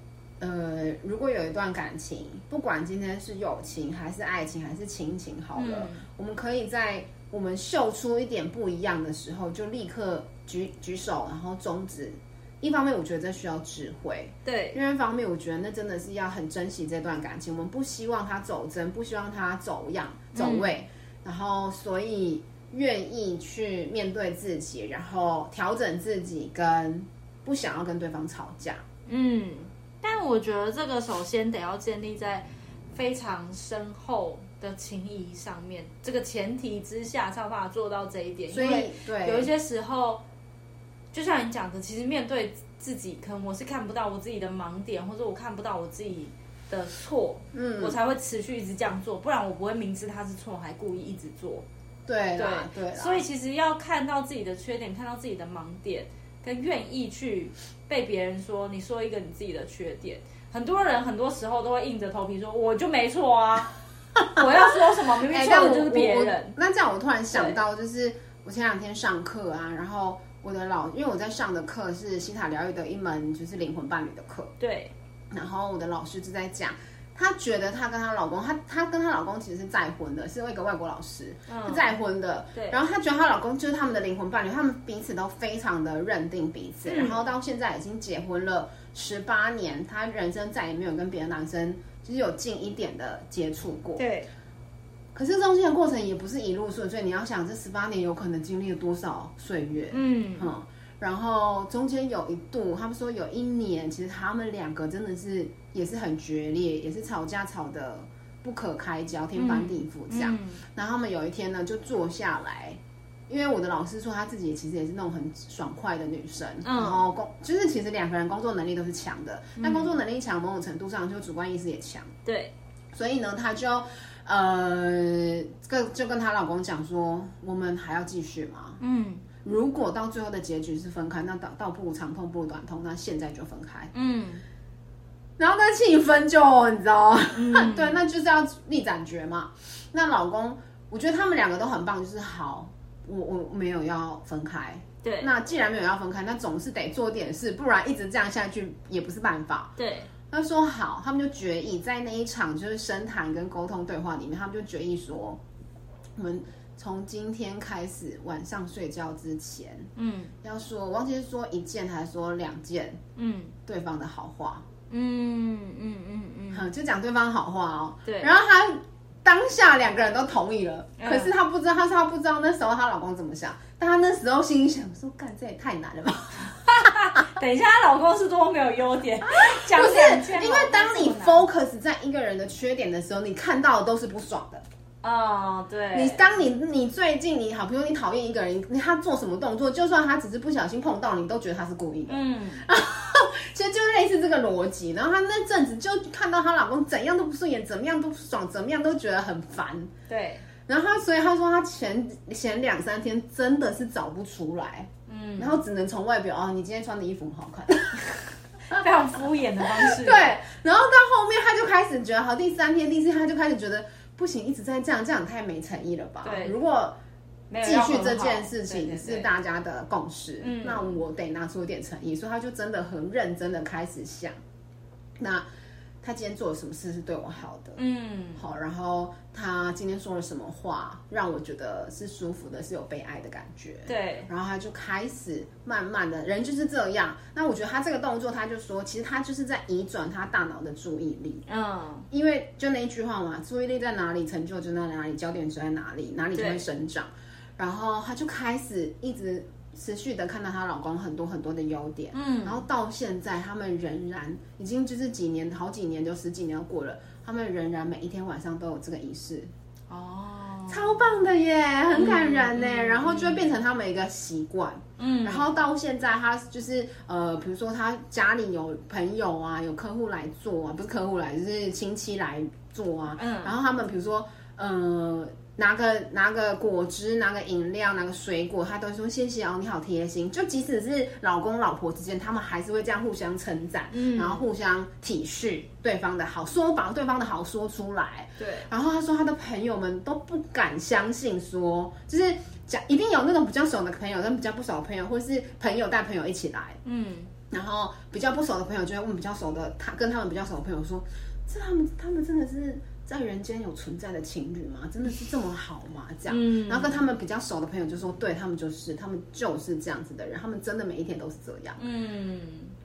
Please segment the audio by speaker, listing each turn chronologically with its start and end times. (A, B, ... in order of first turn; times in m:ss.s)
0:00.4-0:28.8 A
0:05.6-0:06.0 B
0:14.4-0:14.8 B
0:20.3-0:20.8 B
0:29.1-0:40.2 B
0:38.5-0:39.5 A
0:41.1-0:51.7 B
0:47.5-0:48.0 A
0:52.1-0:53.2 A
0:52.4-1:03.8 B
1:04.3-1:06.6 B
1:05.2-1:14.5 A
1:07.3-1:07.6 B
1:14.6-1:14.9 B
1:15.3-1:34.0 A
1:21.5-1:21.9 B
1:26.9-1:27.2 B
1:34.0-1:34.3 B
1:35.1-2:02.1 A
1:39.9-1:40.5 B
1:49.4-1:50.6 B
1:56.6-1:57.0 B
1:59.6-2:00.0 B
2:02.2-2:02.5 B
2:02.9-2:08.8 A
2:08.8-2:09.3 B
2:09.4-2:13.9 A
2:13.9-2:14.4 B
2:15.4-2:29.7 A
2:17.3-2:18.0 B
2:25.0-2:25.3 B
2:29.8-2:30.1 B
2:30.3-2:35.4 A
2:36.2-2:39.9 A
2:40.0-2:40.3 B
2:40.4-2:43.0 A
2:43.2-2:43.5 B
2:43.7-2:44.6 A
2:44.9-2:46.7 B
2:46.5-2:56.9 A
2:48.0-2:48.3 B
2:51.0-2:51.3 B
2:56.7-3:01.4 B
2:59.3-3:04.6 A
3:05.0-3:06.3 B
3:05.9-3:19.9 A
3:12.1-3:12.7 B
3:20.1-3:20.4 B
3:20.7-3:28.1 A
3:25.1-3:25.6 B
3:28.7-3:30.3 B
3:29.6-3:37.0 A
3:36.2-3:36.6 B
3:37.5-3:39.3 B
3:37.6-3:44.4 A
3:40.4-3:41.0 B
3:45.2-3:45.5 A
3:46.0-3:47.8 A
3:47.8-3:48.4 B
3:48.4-4:01.4 A
3:53.9-3:54.3 B
4:01.5-4:02.1 B
4:02.1-4:19.5 A
4:06.4-4:06.6 B
4:12.1-4:12.6 B
4:19.9-4:20.9 B
4:20.7-4:56.8 A
4:21.9-4:23.5 B
4:25.0-4:25.5 B
4:33.2-4:33.6 B
4:43.9-4:44.4 B
4:48.4-4:48.7 B
4:56.8-4:57.3 B
4:57.5-5:11.8 A
5:06.3-5:07.0 B
5:11.8-5:12.7 B